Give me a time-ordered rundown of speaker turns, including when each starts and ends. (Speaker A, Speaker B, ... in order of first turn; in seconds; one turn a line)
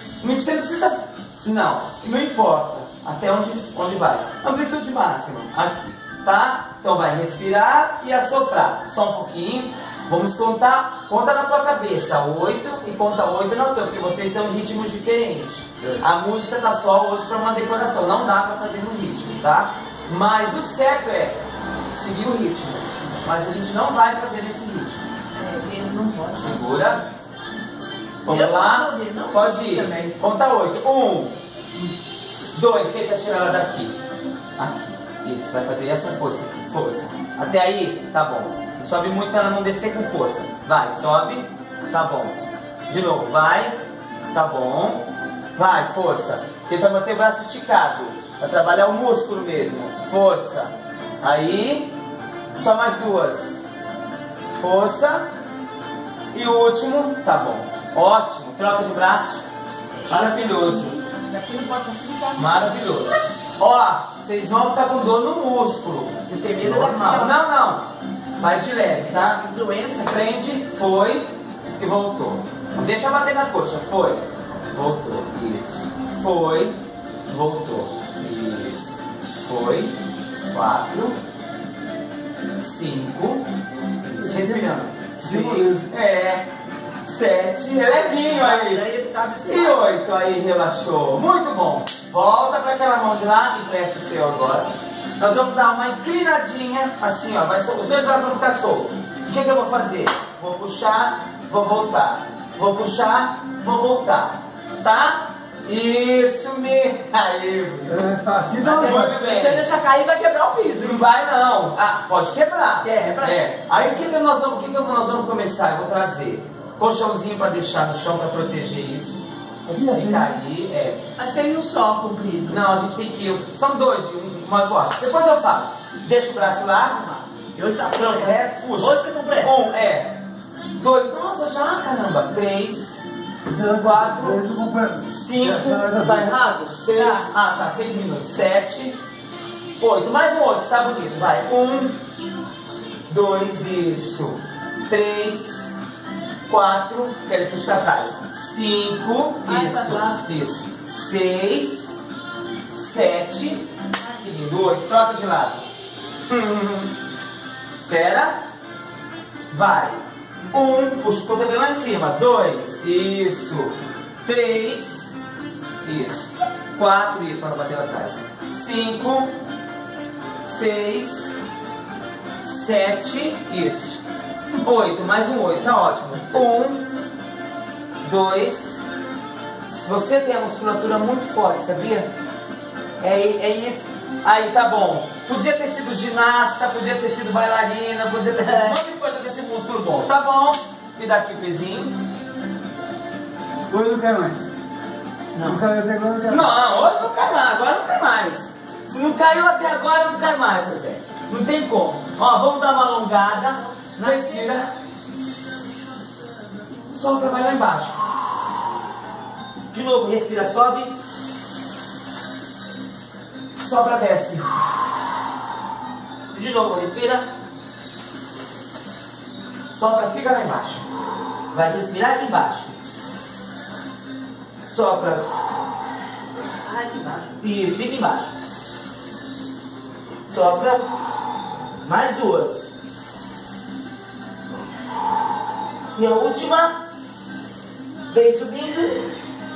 Speaker A: 0.2-21.4
Speaker A: 21.9-25.1
Speaker B: 25.4-26.9
Speaker A: 26.4-27.0
Speaker A: 28.2-31.4
Speaker B: 28.3-30.1
Speaker A: 32.5-34.0
Speaker A: 34.6-43.8
Speaker A: 44.3-51.9
Speaker A: 52.6-53.6
Speaker A: 54.5-55.3
Speaker A: 56.3-59.5
Speaker B: 60.1-62.7
Speaker A: 60.1-61.0
Speaker A: 62.4-67.9
Speaker B: 66.3-67.3
Speaker A: 68.4-69.4
Speaker B: 69.1-70.3
Speaker A: 70.0-80.0
Speaker A: 80.5-81.2
Speaker A: 82.6-83.5
Speaker A: 84.0-86.5
Speaker C: 84.2-85.8
Speaker A: 87.0-88.8
Speaker B: 87.8-89.8
Speaker A: 89.5-109.7
Speaker C: 107.9-109.2
Speaker B: 108.7-111.0
Speaker A: 110.8-121.0
Speaker B: 112.8-113.4
Speaker C: 119.7-120.3
Speaker B: 121.2-122.6
Speaker A: 122.5-127.2
Speaker B: 127.5-129.7
Speaker A: 127.9-130.2
Speaker A: 130.8-133.0
Speaker C: 133.4-136.3
Speaker A: 133.7-134.5
Speaker A: 135.1-139.0
Speaker B: 137.0-137.3
Speaker A: 139.8-142.0
Speaker A: 143.1-145.7
Speaker A: 146.5-151.9
Speaker B: 149.5-150.2
Speaker A: 152.7-155.7
Speaker A: 156.3-156.9
Speaker A: 157.8-158.4
Speaker A: 159.5-160.0
Speaker A: 160.5-165.2
Speaker A: 165.8-169.4
Speaker A: 170.4-171.3
Speaker A: 172.4-174.0
Speaker A: 174.6-176.8
Speaker A: 178.0-178.8
Speaker A: 179.7-182.1
Speaker A: 183.0-192.0
Speaker B: 188.4-188.7
Speaker C: 193.7-194.5
Speaker C: 195.4-196.5
Speaker A: 196.3-204.7
Speaker A: 206.9-208.0
Speaker A: 209.7-210.9
Speaker A: 213.6-214.5
Speaker A: 216.3-217.3
Speaker A: 219.7-220.8
Speaker A: 221.5-222.7
Speaker A: 224.7-225.3
Speaker A: 226.7-228.3
Speaker A: 230.3-230.8
Speaker A: 231.8-232.7
Speaker A: 235.9-236.8
Speaker A: 238.1-239.1